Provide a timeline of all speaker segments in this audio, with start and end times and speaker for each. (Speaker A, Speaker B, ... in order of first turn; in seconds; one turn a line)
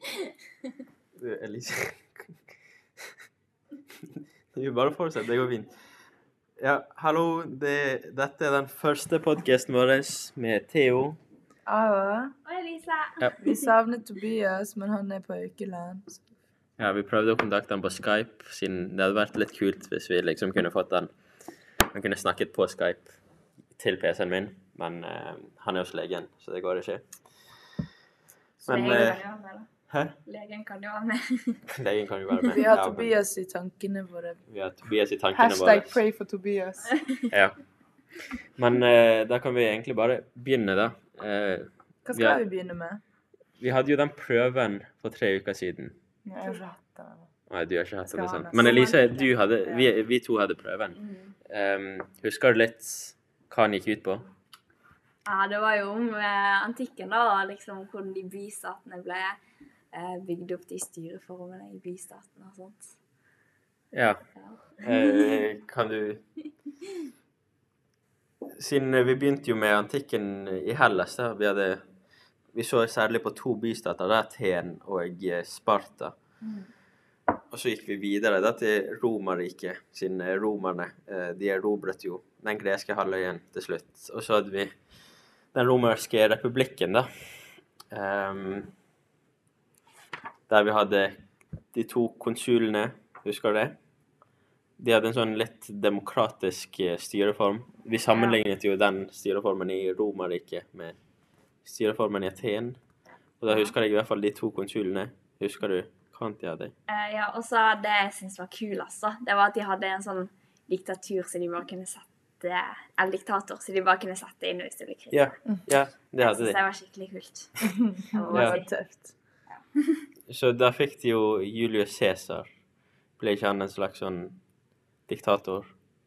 Speaker A: 1.2-2.4
Speaker A: 4.1-5.7
Speaker A: 6.6-11.2
Speaker B: 11.7-12.3
Speaker C: 12.4-13.7
Speaker B: 13.4-16.2
Speaker A: 16.8-21.1
Speaker A: 21.8-23.1
Speaker A: 23.7-27.0
Speaker A: 28.6-29.2
Speaker C: 28.6-29.7
Speaker B: 28.7-29.0
Speaker A: 29.9-30.1
Speaker C: 30.2-31.6
Speaker A: 31.7-33.1
Speaker B: 32.5-34.4
Speaker A: 34.5-36.0
Speaker B: 35.3-37.0
Speaker A: 37.3-37.6
Speaker A: 38.6-42.4
Speaker B: 42.0-43.0
Speaker A: 43.6-46.0
Speaker B: 46.2-47.3
Speaker A: 47.5-51.0
Speaker B: 48.0-48.8
Speaker C: 48.5-49.9
Speaker C: 51.0-51.3
Speaker A: 51.5-54.3
Speaker C: 55.2-59.4
Speaker C: 59.9-62.9
Speaker A: 63.9-64.2
Speaker C: 64.3-65.4
Speaker A: 64.8-66.2
Speaker A: 68.5-71.8
Speaker A: 72.5-76.2
Speaker A: 77.5-84.8
Speaker A: 85.5-87.1
Speaker A: 87.9-88.7
Speaker A: 90.5-91.2
Speaker A: 91.7-93.8
Speaker A: 94.8-101.0
Speaker C: 98.1-98.4
Speaker A: 101.6-102.8
Speaker A: 103.4-106.7
Speaker C: 103.5-103.7
Speaker C: 106.9-115.3
Speaker A: 115.1-116.6
Speaker C: 116.2-118.7
Speaker B: 117.7-119.1
Speaker C: 119.5-120.0
Speaker A: 120.3-122.5
Speaker A: 123.2-124.4
Speaker A: 125.1-125.7